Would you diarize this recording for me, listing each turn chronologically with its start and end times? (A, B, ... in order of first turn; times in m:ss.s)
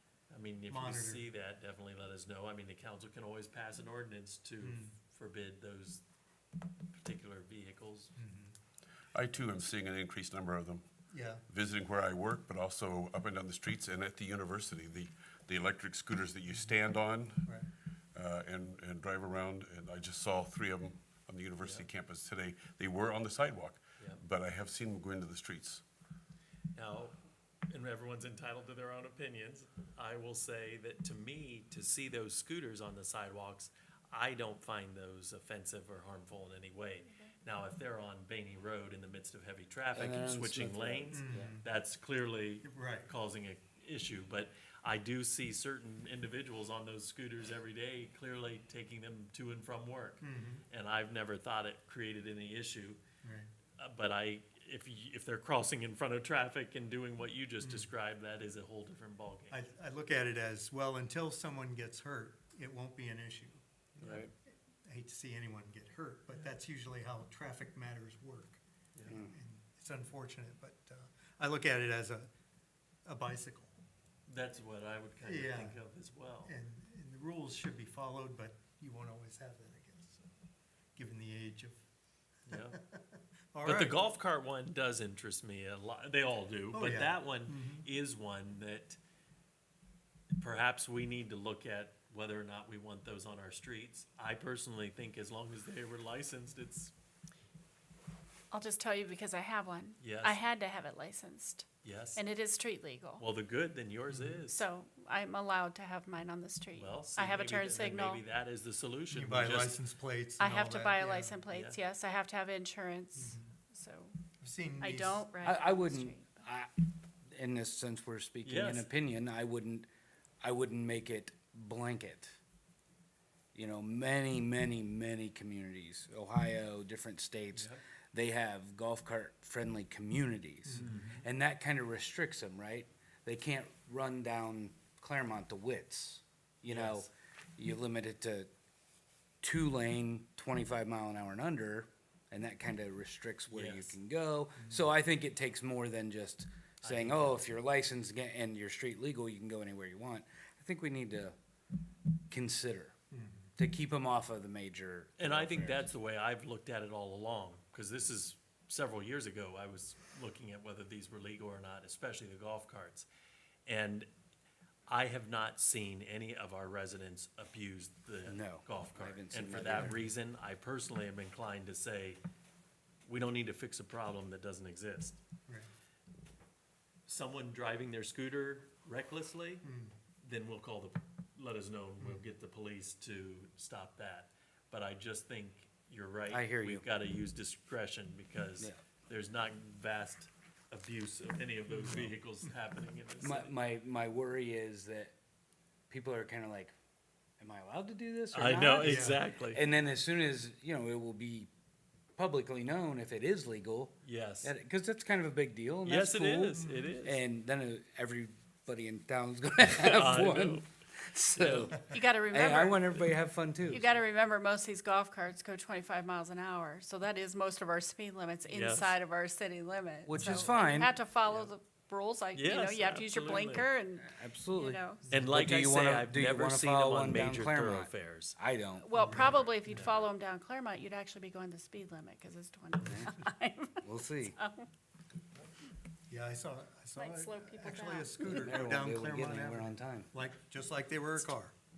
0:00.3-0:06.0 A
0:00.7-0:01.2 B
0:04.6-0:04.9 B
0:06.9-0:08.1 A
0:08.2-0:08.5 B
0:09.1-0:10.8 C
0:11.1-0:11.4 B
0:11.5-0:17.5 C
0:18.1-0:25.8 C
0:21.6-0:21.9 A
0:26.7-0:27.2 A
0:27.7-0:53.0 A
0:39.9-0:41.5 D
0:41.1-0:41.6 B
0:42.6-0:43.1 B
0:50.2-0:50.6 B
0:53.2-0:53.5 B
0:53.8-0:59.6 A
0:57.6-0:57.9 B
0:59.5-1:03.6 B
1:04.0-1:04.3 A
1:04.8-1:12.3 B
1:13.0-1:13.7 B
1:14.3-1:16.5 A
1:15.2-1:15.8 B
1:16.4-1:20.3 B
1:21.0-1:21.8 B
1:22.5-1:22.8 A
1:22.5-1:24.0 B
1:23.6-1:29.0 A
1:26.7-1:27.8 B
1:30.4-1:36.9 A
1:38.5-1:43.2 E
1:40.0-1:40.4 A
1:41.8-1:42.2 A
1:43.2-1:44.6 A
1:44.1-1:44.4 B
1:44.5-1:48.2 E
1:46.8-1:49.8 A
1:49.1-1:51.4 B
1:50.4-1:54.2 E
1:51.5-1:51.8 A
1:53.2-1:53.5 B
1:54.4-1:55.3 B
1:54.8-1:56.3 E
1:55.4-1:56.7 D
1:57.3-1:59.9 D
1:58.4-1:58.9 A
2:00.4-2:02.4 D
2:03.5-2:18.5 D
2:07.5-2:07.8 A
2:10.6-2:10.9 B
2:10.8-2:11.2 A
2:16.7-2:17.1 A
2:19.4-2:31.3 D
2:23.5-2:24.0 A
2:26.8-2:27.4 A
2:32.3-2:32.9 D
2:33.1-2:33.5 B
2:33.6-2:35.9 D
2:35.2-2:43.1 A
2:43.6-2:44.1 A
2:44.9-2:52.2 A
2:48.2-2:50.0 D
2:49.6-2:50.0 B
2:53.1-2:55.2 A
2:57.1-2:59.6 A
2:59.6-2:59.9 B
3:00.2-3:13.5 A
3:06.3-3:06.8 D
3:11.7-3:12.1 B
3:13.2-3:15.1 D
3:15.9-3:16.7 D
3:17.4-3:21.5 D
3:18.3-3:19.6 A
3:18.8-3:19.2 B
3:22.2-3:33.8 D
3:24.0-3:24.5 A
3:25.8-3:27.2 A
3:29.6-3:30.6 A
3:31.4-3:31.8 A
3:31.9-3:33.1 E
3:33.6-3:45.0 E
3:38.5-3:39.0 A
3:40.0-3:40.9 D
3:42.4-3:43.7 A
3:44.0-3:49.3 D
3:45.1-3:48.4 A
3:48.8-3:54.7 E
3:48.9-3:49.9 B
3:49.1-3:50.1 A
3:52.8-3:53.1 D
3:53.8-3:54.4 D
3:56.1-4:01.5 B
3:57.0-3:58.6 E
3:58.2-4:00.1 D